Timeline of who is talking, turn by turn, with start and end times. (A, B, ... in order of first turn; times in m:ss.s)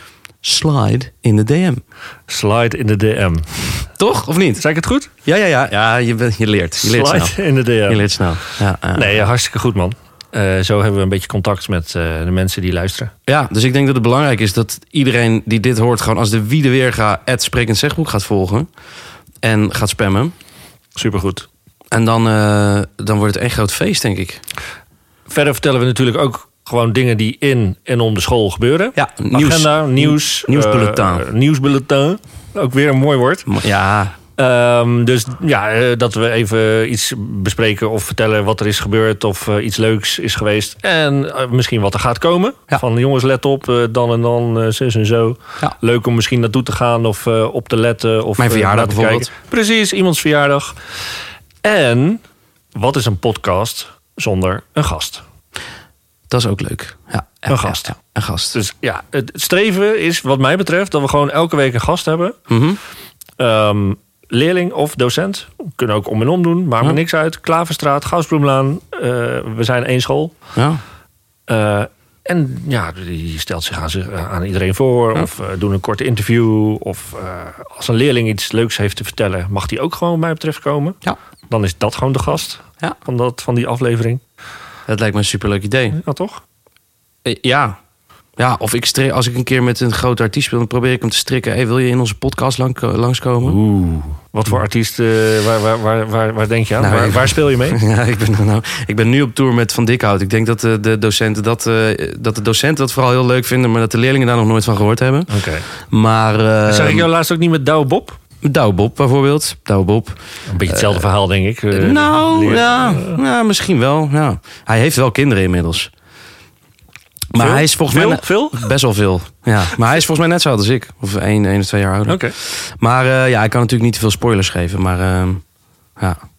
0:00.4-0:01.8 A
0:02.3-0:03.9 B
0:04.0-0:04.6 A
0:04.6-0:05.1 B
0:05.2-0:09.3 A
0:06.8-0:08.1 B
0:09.0-0:13.1 B
0:13.3-0:18.7 A
0:19.4-0:20.3 A
0:21.0-0:21.5 B
0:21.9-0:24.4 A
0:25.3-0:33.5 B
0:29.0-0:31.2 A
0:33.5-0:34.1 A
0:34.4-0:50.8 B
0:48.4-0:49.3 A
0:51.6-0:52.2 B
0:52.8-0:55.2 B
0:56.3-0:58.6 A
0:57.5-0:57.9 B
0:58.5-1:02.4 B
1:02.5-1:02.8 A
1:03.4-1:10.3 B
1:10.6-1:10.8 A
1:11.5-1:21.0 B
1:21.5-1:24.2 B
1:24.9-1:26.0 A
1:26.0-1:26.4 B
1:27.2-1:27.8 A
1:28.4-1:33.6 A
1:33.5-1:37.8 B
1:36.8-1:47.1 A
1:45.3-1:45.7 B
1:46.7-1:48.2 B
1:48.4-1:51.1 A
1:50.5-1:53.2 B
1:51.7-1:55.9 A
1:57.3-2:05.4 A
1:57.4-1:58.7 B
2:02.1-2:02.4 B